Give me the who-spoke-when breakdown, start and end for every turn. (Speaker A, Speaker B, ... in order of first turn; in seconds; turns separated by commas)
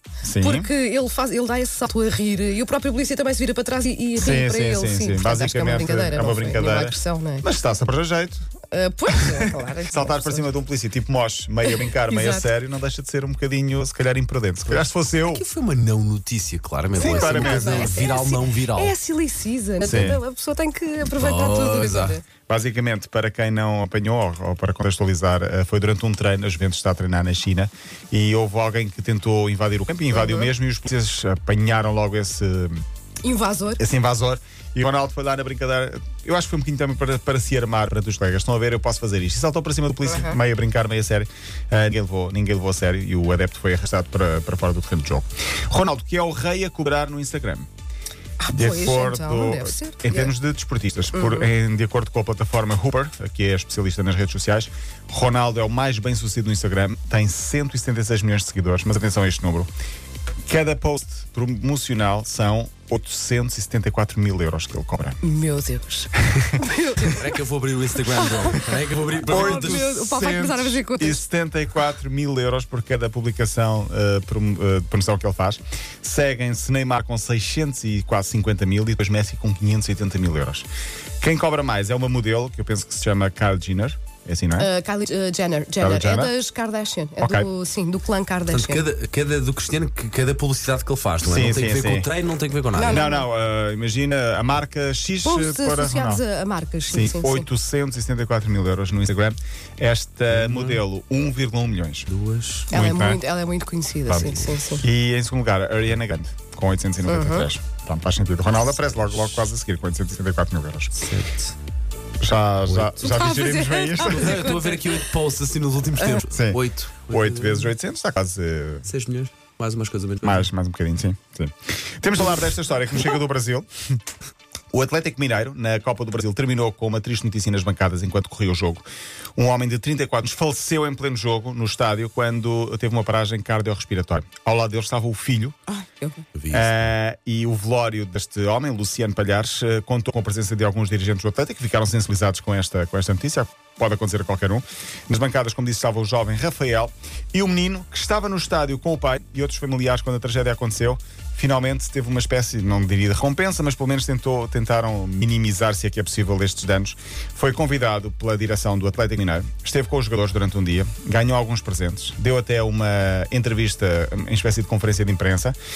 Speaker A: 0.2-0.7, Speaker B: 0.4-7.5, Speaker A: 4.2-8.4, Speaker B: 8.7-10.5, Speaker A: 9.1-15.5, Speaker B: 12.0-12.5, Speaker C: 14.7-19.0, Speaker B: 17.0-22.2, Speaker A: 17.0-18.1, Speaker C: 19.8-20.1, Speaker A: 19.9-20.2, Speaker C: 21.0-22.2, Speaker A: 22.5-32.8, Speaker B: 30.1-30.5, Speaker B: 33.2-33.8, Speaker A: 33.8-47.7, Speaker B: 48.4-50.3, Speaker A: 48.5-59.7, Speaker B: 51.1-51.5, Speaker A: 60.5-65.2, Speaker B: 65.2-67.3, Speaker C: 67.1-69.9, Speaker B: 68.0-71.2, Speaker A: 69.3-80.7, Speaker A: 81.2-84.7, Speaker B: 84.6-88.8, Speaker A: 85.8-86.3, Speaker A: 87.2-87.5, Speaker C: 88.5-93.0, Speaker A: 91.2-92.1, Speaker B: 92.7-93.3, Speaker A: 92.9-96.2, Speaker B: 95.2-97.5, Speaker A: 96.9-102.1, Speaker C: 100.3-100.8, Speaker C: 102.1-102.7, Speaker B: 102.7-104.8, Speaker A: 102.7-103.2, Speaker A: 104.1-110.9, Speaker B: 107.0-107.5, Speaker C: 111.0-111.5, Speaker A: 112.2-114.4, Speaker C: 112.7-113.1, Speaker B: 113.0-114.8, Speaker C: 114.0-117.7, Speaker A: 116.3-116.6, Speaker A: 117.1-118.9, Speaker C: 118.8-120.5, Speaker A: 120.2-123.7, Speaker A: 124.7-128.8, Speaker A: 129.4-135.6, Speaker B: 135.7-136.2, Speaker C: 136.3-136.8, Speaker A: 136.5-165.6